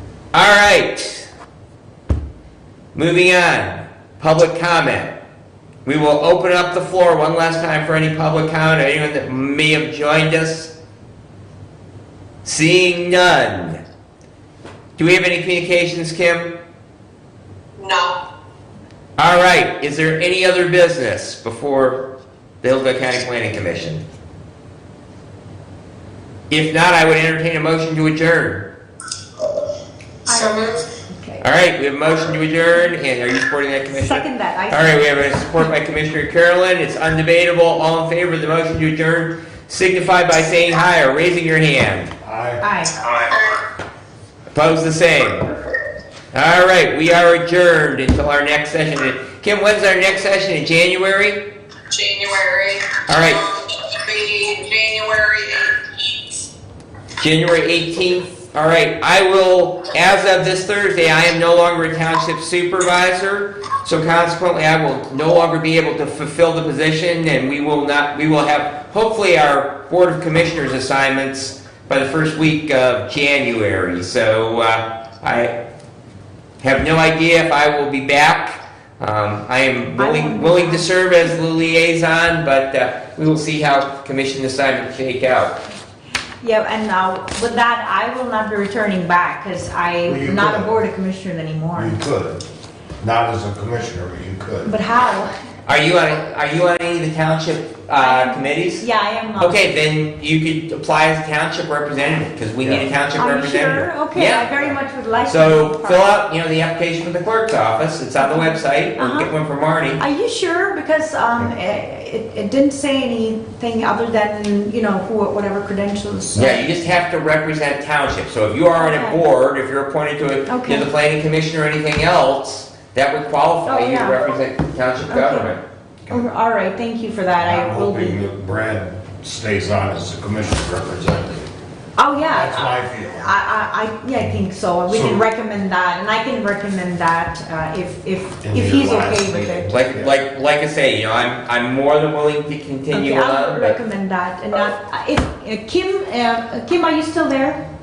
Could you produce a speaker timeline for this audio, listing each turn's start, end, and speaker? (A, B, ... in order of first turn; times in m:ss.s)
0:00.3-0:01.3 A
0:02.9-0:05.1 A
0:05.8-0:10.7 A
0:12.4-0:13.8 A
0:15.0-0:16.5 A
0:17.8-0:18.2 B
0:19.2-0:22.0 A
0:22.6-0:24.0 A
0:26.5-0:28.7 A
0:30.2-0:31.4 C
0:30.3-0:30.8 B
0:31.4-0:42.1 A
0:33.9-0:35.7 C
0:42.2-0:42.7 D
0:42.6-0:43.0 C
0:43.3-0:43.6 B
0:44.5-0:45.5 A
0:46.3-0:51.4 A
0:51.9-0:56.2 B
0:53.1-0:53.4 A
0:57.2-1:15.6 A
1:16.6-1:25.6 A
1:20.0-1:20.9 C
1:26.4-1:32.0 C
1:30.0-1:30.8 D
1:31.7-1:32.4 D
1:33.0-1:34.7 D
1:34.6-1:35.3 C
1:35.6-1:38.8 A
1:38.0-1:39.7 C
1:39.4-1:44.5 A
1:42.6-1:42.9 D
1:43.2-1:46.2 C
1:45.2-1:50.0 A
1:48.2-1:49.3 C
1:50.0-1:56.6 C
1:56.3-2:05.6 A
1:58.8-1:59.2 C
2:00.5-2:00.9 C
2:03.6-2:04.2 C
2:05.1-2:05.5 C
2:06.1-2:08.2 C
2:07.4-2:11.5 D
2:12.0-2:19.7 C
2:12.3-2:13.3 D
2:14.9-2:15.3 D
2:18.4-2:20.1 D
2:19.7-2:23.8 A
2:22.9-2:27.6 C